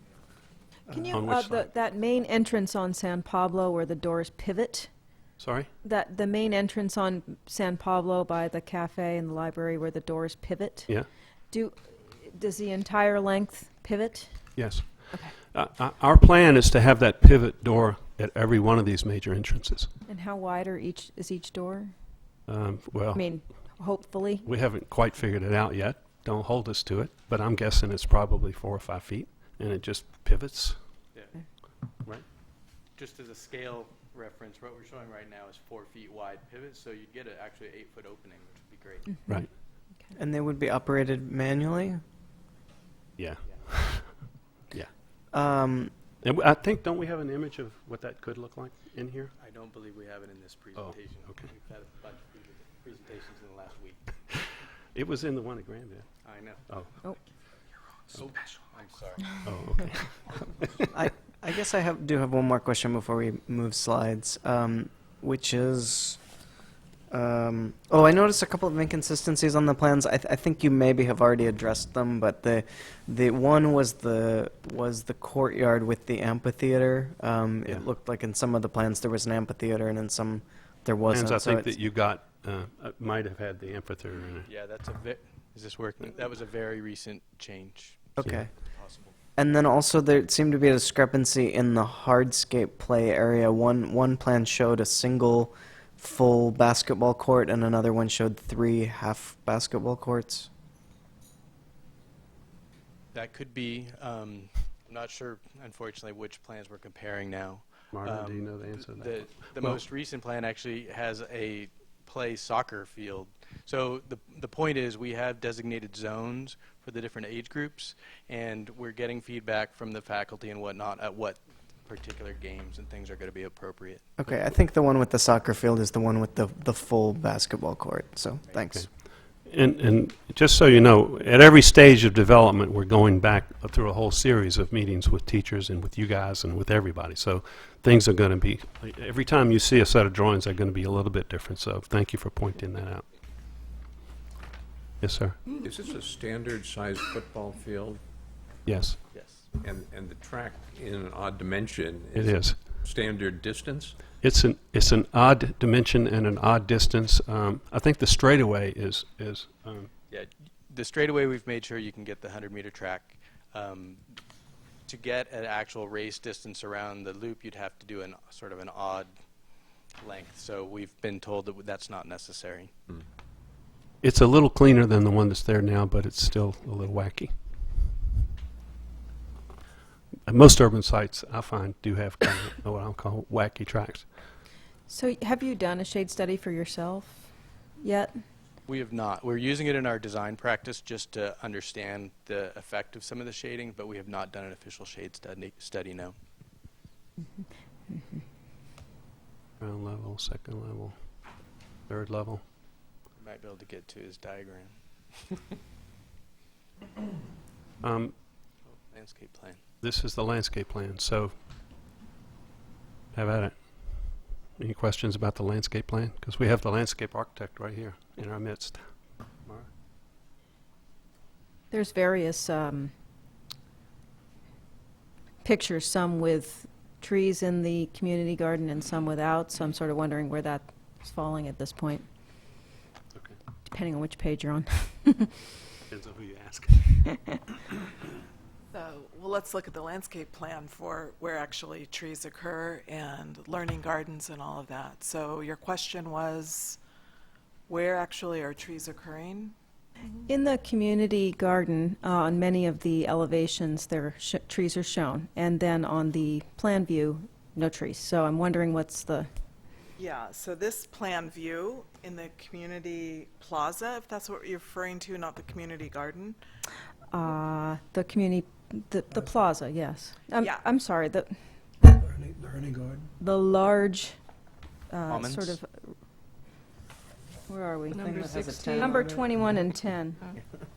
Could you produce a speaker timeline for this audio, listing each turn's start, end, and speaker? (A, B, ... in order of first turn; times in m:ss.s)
0:00.9-0:04.9 A
0:01.1-0:01.6 B
0:05.4-0:05.7 B
0:05.8-0:14.3 A
0:14.6-0:19.9 B
0:20.0-0:21.9 A
0:22.5-0:23.4 B
0:23.1-0:24.5 A
0:24.4-0:30.8 B
0:31.1-0:31.4 C
0:33.0-0:39.4 C
0:39.2-0:40.1 A
0:40.2-0:42.0 D
0:43.2-0:44.1 B
0:45.3-0:45.9 D
0:46.2-0:49.3 B
0:49.4-0:54.0 C
0:50.8-0:51.5 B
0:54.9-0:56.1 B
0:56.2-0:57.2 C
0:58.1-0:59.5 C
0:59.4-1:00.4 B
1:00.9-1:06.2 D
1:07.1-1:21.8 D
1:21.1-1:24.5 B
1:24.4-1:29.1 C
1:28.2-1:28.5 D
1:29.4-1:40.5 D
1:43.1-2:04.3 C
1:47.9-1:49.8 B
2:04.2-2:08.9 D
2:09.4-2:23.0 B
2:25.0-2:25.6 B
2:25.6-2:28.0 E
2:28.6-2:29.0 B
2:29.1-2:29.5 C
2:29.6-2:34.0 E
2:32.1-2:32.7 B
2:34.2-2:39.9 B
2:40.1-2:44.0 C
2:44.8-2:49.1 C
2:50.0-2:52.7 C
2:54.0-2:57.3 B
3:00.3-3:04.1 B
3:04.9-3:08.1 A
3:08.7-3:16.1 C
3:19.6-3:20.9 B
3:21.9-3:22.4 B
3:23.2-3:25.4 C
3:27.8-3:28.1 B
3:28.6-3:29.6 C
3:29.8-3:31.3 B
3:33.1-3:38.8 B
3:41.7-3:42.9 A
3:45.4-3:52.0 A
3:53.6-3:55.3 A
3:55.9-3:57.2 B
3:58.7-4:06.8 F
4:07.7-4:09.5 F
4:10.3-4:19.3 A
4:20.0-4:26.4 F
4:27.1-4:31.3 A
4:32.1-4:33.0 G
4:33.2-4:34.2 A
4:34.9-4:35.9 A
4:35.1-4:35.6 C
4:37.5-4:38.1 A
4:37.9-4:39.2 G
4:37.9-4:39.3 D
4:38.7-4:40.2 A